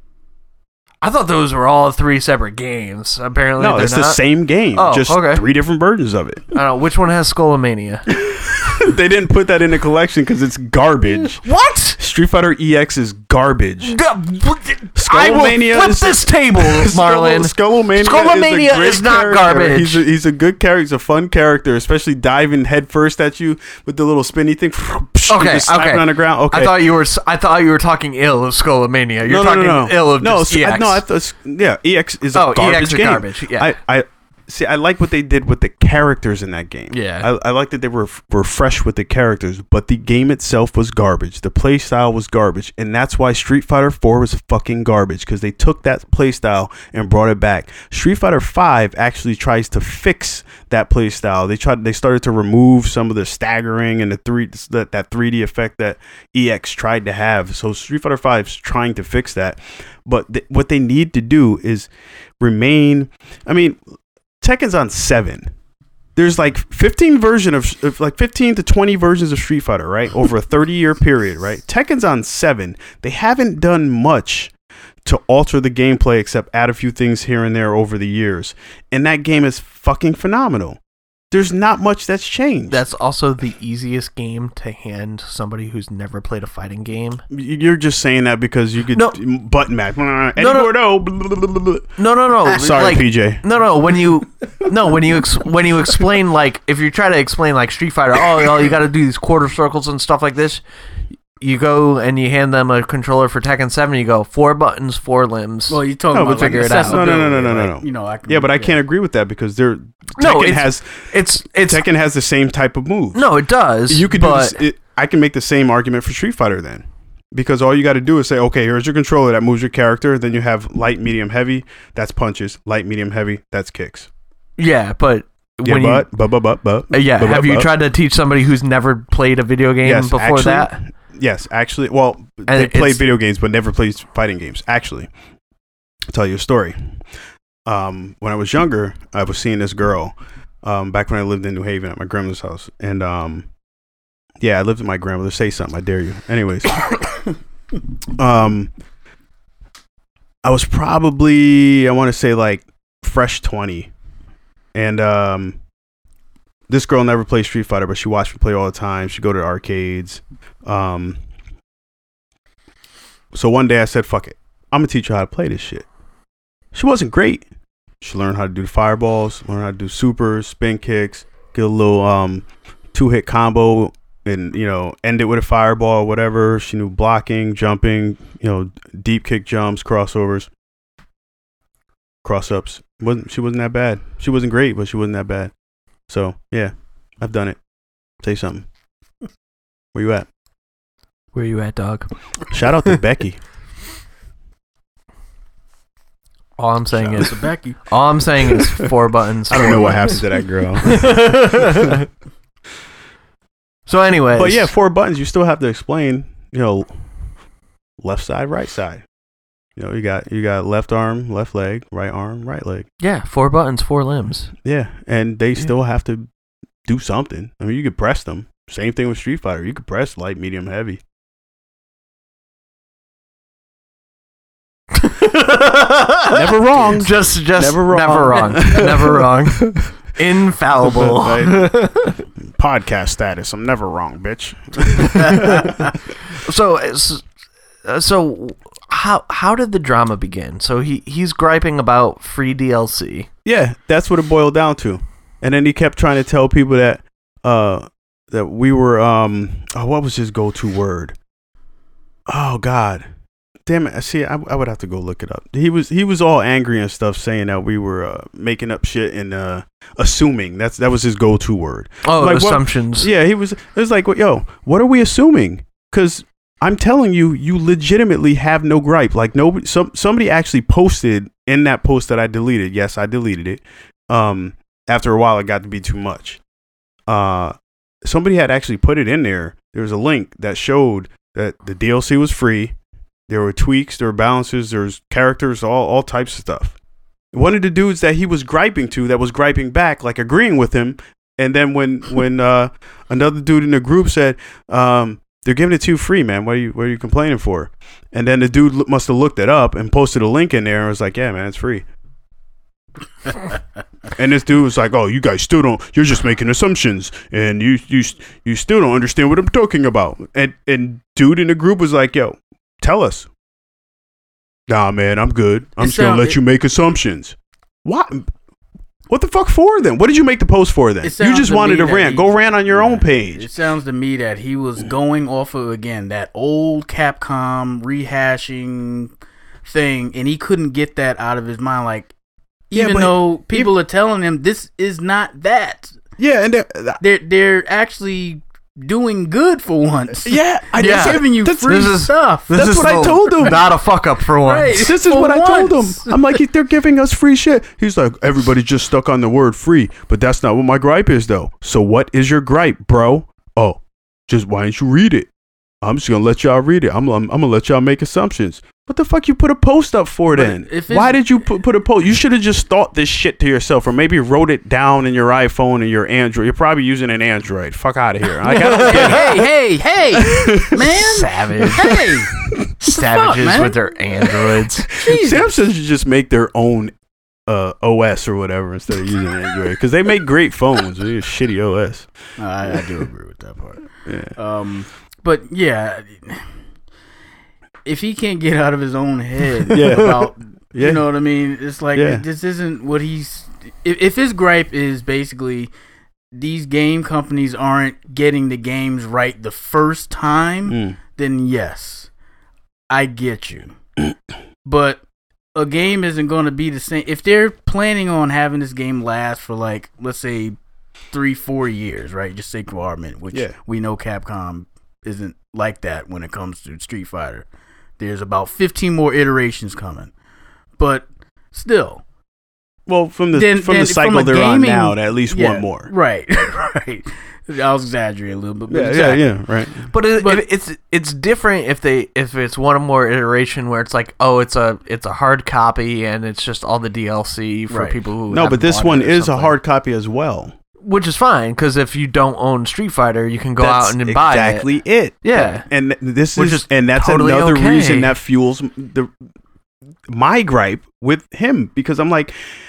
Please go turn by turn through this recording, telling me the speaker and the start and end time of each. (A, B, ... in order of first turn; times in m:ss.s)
0:01.0-0:04.2 A
0:03.6-0:06.5 B
0:04.7-0:05.4 A
0:06.5-0:08.1 A
0:08.1-0:11.4 B
0:11.4-0:12.0 A
0:12.0-0:14.0 B
0:13.8-0:20.0 A
0:14.9-0:26.9 B
0:25.3-0:31.0 A
0:29.2-1:01.9 B
0:32.3-0:33.7 A
0:36.9-0:37.3 A
1:02.4-1:03.8 B
1:04.4-1:05.5 B
1:06.2-1:14.5 B
1:15.0-1:20.8 B
1:21.3-1:22.8 B
1:22.7-1:27.2 A
1:27.3-1:33.4 B
1:30.4-1:30.7 A
1:32.0-1:40.6 A
1:41.4-1:47.1 A
1:45.7-1:48.8 C
1:46.1-1:53.3 B
1:50.2-1:51.8 A
1:53.1-1:54.6 A
1:53.9-2:04.1 B
2:04.6-2:06.1 A
2:05.6-2:07.7 B
2:06.9-2:10.8 A
2:09.8-2:15.1 B
2:12.5-2:13.0 A
2:16.1-2:16.8 B
2:17.6-2:23.5 B
2:24.4-2:26.8 B
2:28.2-2:28.7 B
2:30.4-2:33.9 B
2:34.7-2:35.6 B
2:36.7-2:41.2 B
2:43.3-2:45.8 B
2:46.7-2:47.4 B
2:48.0-3:00.5 B
3:02.2-3:05.5 B
3:06.1-3:07.6 B
3:08.2-3:08.6 B
3:09.9-3:10.3 B
3:11.3-3:12.1 A
3:12.5-3:13.4 B
3:16.6-3:20.2 A
3:16.9-3:17.8 C
3:19.5-3:21.9 B
3:20.8-3:22.0 A
3:23.9-3:24.7 A
3:24.3-3:26.9 B
3:28.0-3:29.0 B
3:29.8-3:32.9 B
3:33.0-3:34.5 A
3:34.6-3:36.3 B
3:36.8-3:41.0 B
3:44.9-3:52.2 A
3:46.3-3:49.9 B
3:50.8-3:56.0 B
3:55.2-3:55.7 A
3:56.3-3:57.2 A
3:57.8-4:03.3 A
4:03.4-4:11.2 B
4:12.3-4:13.0 B
4:13.6-4:36.4 B
4:22.0-4:23.1 A
4:37.1-4:42.7 B
4:43.3-4:46.8 B
4:47.3-5:01.8 B
5:04.2-5:13.3 B
5:14.7-5:18.2 B
5:15.8-5:16.4 C
5:19.1-5:23.5 B
5:21.0-5:29.1 C
5:29.6-5:32.1 C
5:32.7-5:36.0 C
5:32.7-5:33.7 B
5:36.2-5:37.0 B
5:37.0-5:43.6 C
5:40.2-5:41.9 B
5:40.8-5:44.9 A
5:42.5-5:43.6 B
5:44.4-5:46.4 C
5:44.7-5:55.3 B
5:55.8-6:09.4 B
6:00.3-6:01.2 C
6:08.4-6:09.4 A
6:08.7-6:13.8 C
6:10.1-6:11.1 B
6:10.8-6:11.9 A
6:11.6-6:12.7 B
6:12.8-6:14.9 A
6:14.5-6:16.9 B
6:14.9-6:15.5 C
6:17.5-6:22.1 B
6:22.4-6:26.5 C
6:22.7-6:23.0 B
6:24.0-6:24.3 B
6:27.8-6:35.7 C
6:29.7-6:31.0 B
6:31.9-6:32.2 B
6:36.3-6:42.1 C
6:40.7-6:41.0 B
6:42.9-6:43.7 C
6:44.6-6:45.0 C
6:45.5-6:50.6 C
6:51.1-6:57.4 C
6:58.0-7:00.1 C
7:00.8-7:02.0 C
7:02.9-7:05.9 B
7:03.3-7:09.2 C
7:08.7-7:09.9 B
7:09.9-7:19.6 A
7:10.2-7:10.4 C
7:17.7-7:18.0 C
7:18.3-7:20.5 B
7:20.8-7:24.7 A
7:23.6-7:29.1 B
7:25.2-7:25.6 A
7:26.4-7:28.1 A
7:30.1-7:32.3 B